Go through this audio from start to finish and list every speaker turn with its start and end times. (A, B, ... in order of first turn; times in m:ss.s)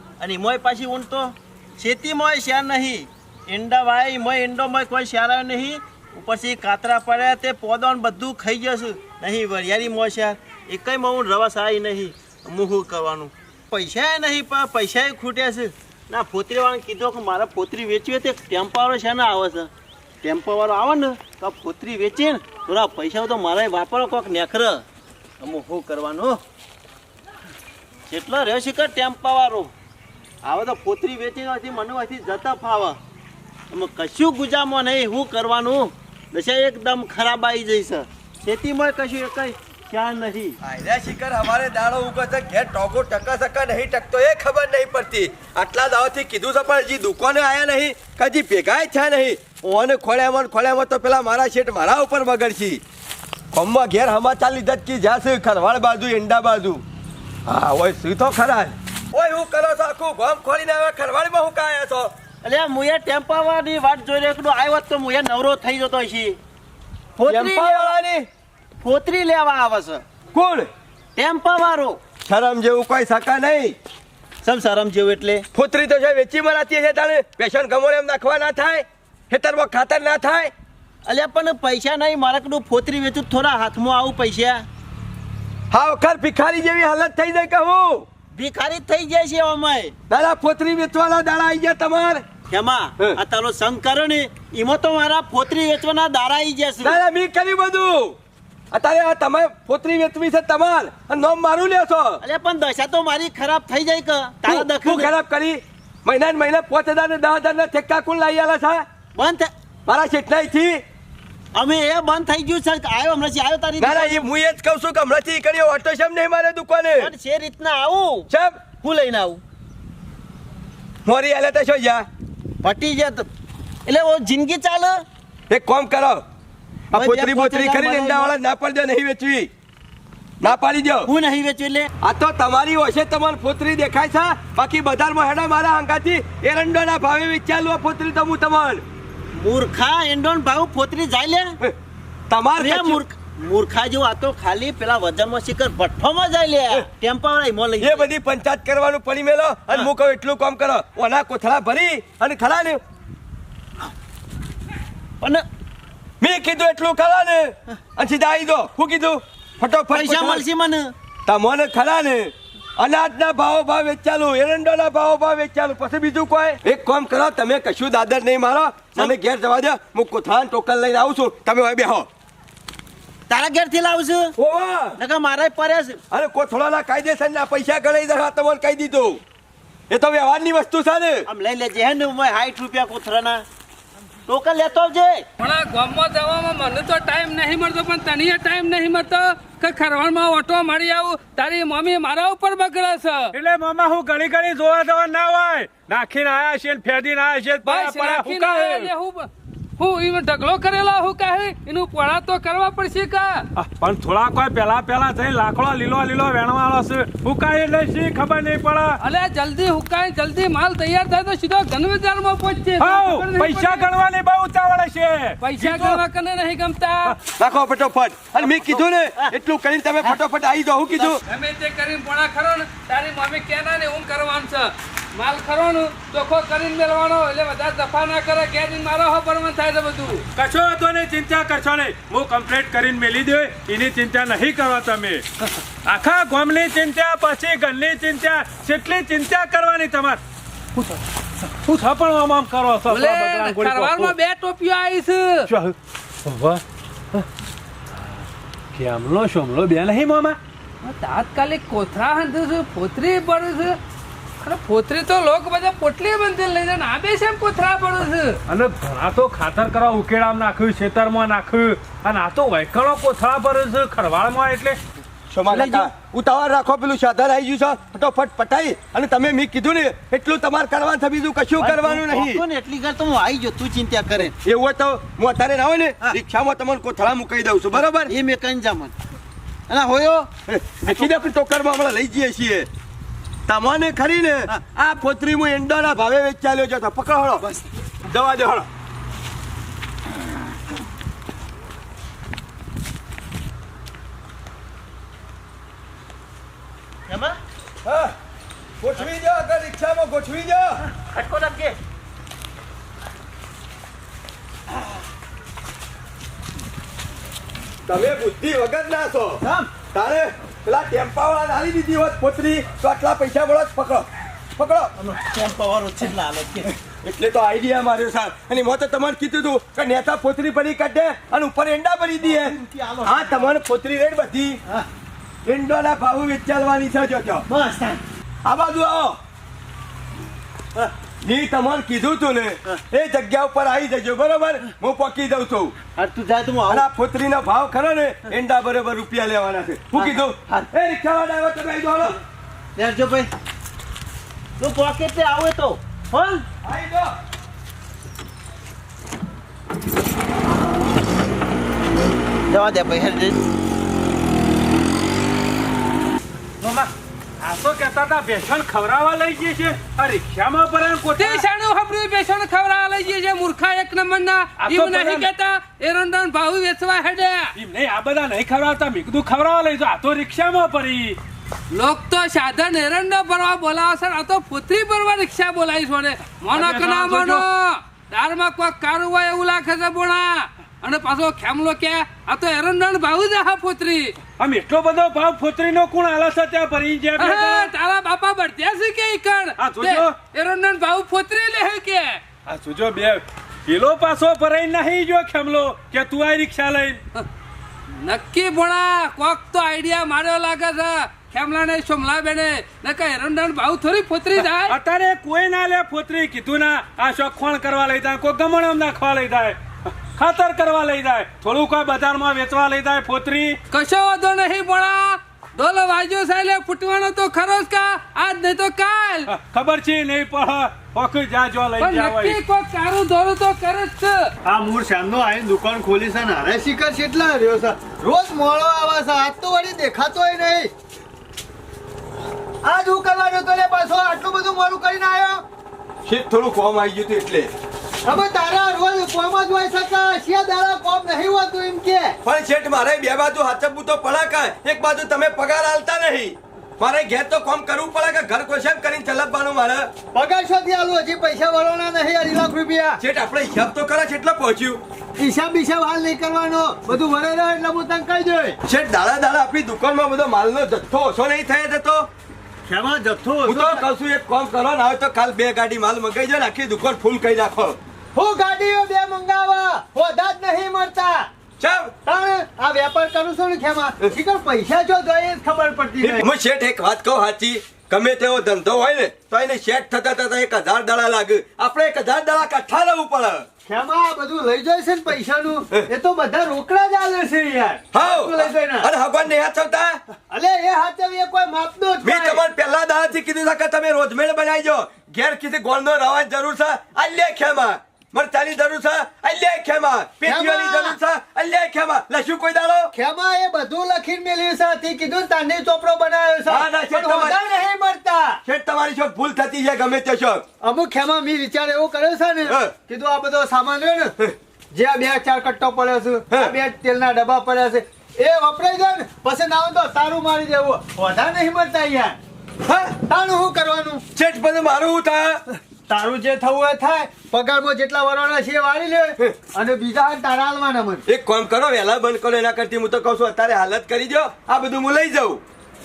0:00.2-0:19.7 A
0:20.2-0:24.8 A
0:25.4-0:26.4 A
0:28.1-0:29.7 A
0:30.4-0:33.0 A
0:33.7-0:40.6 A
0:40.6-0:52.8 B
0:53.5-0:56.8 B
0:57.5-1:02.1 B
1:02.4-1:06.4 A
1:07.2-1:08.0 A
1:07.3-1:08.3 B
1:08.8-1:10.0 A
1:10.3-1:10.7 B
1:11.2-1:12.0 A
1:12.2-1:13.8 B
1:14.4-1:15.5 A
1:15.5-1:20.5 B
1:21.1-1:24.7 A
1:25.7-1:28.1 B
1:28.3-1:29.9 A
1:30.1-1:32.2 B
1:32.5-1:37.0 A
1:36.8-1:38.2 B
1:38.7-1:42.2 B
1:42.2-1:45.1 A
1:44.4-1:48.8 B
1:49.2-1:49.5 A
1:49.9-1:50.8 B
1:51.5-1:54.2 A
1:53.8-1:57.1 B
1:57.0-1:58.3 A
1:58.3-1:58.6 B
1:58.8-1:59.4 A
2:01.1-2:02.0 B
2:02.6-2:03.3 A
2:03.9-2:05.0 A
2:05.5-2:06.2 B
2:06.9-2:09.5 B
2:06.9-2:08.4 A
2:10.4-2:11.1 B
2:11.1-2:11.9 A
2:12.0-2:18.8 B
2:19.3-2:21.6 A
2:22.3-2:23.0 B
2:22.6-2:28.0 A
2:27.8-2:32.8 B
2:36.2-2:40.4 B
2:39.9-2:40.9 A
2:41.3-2:52.1 B
2:53.3-2:54.4 A
2:54.4-2:55.0 B
2:55.0-2:56.0 A
2:56.1-2:59.2 B
2:59.9-3:01.3 B
3:01.3-3:03.4 A
3:04.3-3:05.3 A
3:05.4-3:13.3 C
3:13.3-3:18.9 D
3:17.6-3:23.5 C
3:23.6-3:29.0 D
3:29.0-3:33.9 C
3:32.8-3:36.0 D
3:35.4-3:37.2 C
3:37.4-3:41.2 B
3:38.5-3:39.3 A
3:41.2-3:50.3 C
3:50.4-3:55.3 D
3:55.8-4:00.2 D
4:01.5-4:04.1 D
4:02.9-4:05.5 C
4:05.5-4:06.6 D
4:08.8-4:10.4 D
4:10.8-4:13.8 C
4:14.4-4:18.4 C
4:18.5-4:24.8 D
4:25.3-4:32.4 B
4:25.5-4:25.9 A
4:31.6-4:34.3 A
4:34.4-4:38.1 B
4:38.1-4:39.0 A
4:39.7-4:40.3 A
4:40.5-4:42.7 B
4:40.8-4:41.1 A
4:43.5-4:47.5 B
4:48.1-4:48.7 B
4:57.1-4:57.4 A
4:57.8-4:58.1 B
4:58.8-5:00.8 B
5:00.9-5:01.8 A
5:07.9-5:14.9 B
5:09.4-5:09.7 A
5:15.0-5:16.7 A
5:16.6-5:24.6 B
5:22.2-5:23.5 A
5:25.4-5:27.5 B
5:27.5-5:28.0 A
5:28.4-5:29.2 B
5:31.2-5:35.8 B
5:36.0-5:36.9 A
5:36.7-5:42.2 B
5:40.0-5:40.6 A
5:42.8-5:43.3 A
5:44.6-5:46.4 A
5:46.6-5:47.2 B
5:52.5-5:53.4 A
5:56.6-5:56.9 D
5:57.4-6:01.4 D
6:01.2-6:07.5 C
6:04.6-6:05.3 D
6:07.6-6:11.2 D
6:11.7-6:24.2 C
6:16.5-6:17.4 D
6:24.4-6:27.7 D
6:27.2-6:32.2 C
6:29.6-6:30.2 D
6:32.5-6:37.0 D
6:37.9-6:44.8 C
6:44.4-6:53.6 D
6:53.7-6:59.3 C
6:59.3-7:02.4 D
7:01.8-7:04.3 C
7:04.4-7:10.7 E
7:12.6-7:15.4 E
7:16.0-7:17.5 B
7:18.0-7:22.2 E
7:22.2-7:29.9 B
7:30.1-7:33.0 E
7:33.0-7:34.8 B
7:35.2-7:38.6 E
7:38.6-7:42.1 B
7:42.7-7:43.8 E
7:43.4-7:47.8 B
7:48.1-7:51.3 E
7:51.6-7:51.9 B
7:52.0-7:56.3 E
7:56.0-8:03.5 B
8:03.7-8:08.9 E
8:07.9-8:10.0 B
8:10.3-8:12.4 E
8:12.0-8:22.9 B
8:20.2-8:21.0 E
8:22.9-8:28.4 E
8:26.5-8:27.4 B
8:28.4-8:30.4 B
8:30.6-8:34.1 E
8:32.4-8:32.7 B
8:34.7-8:42.2 E
8:36.3-8:36.6 B
8:42.6-8:43.0 B
8:43.0-8:44.0 E
8:44.1-8:45.4 B
8:45.9-8:51.0 E
8:51.1-8:55.4 B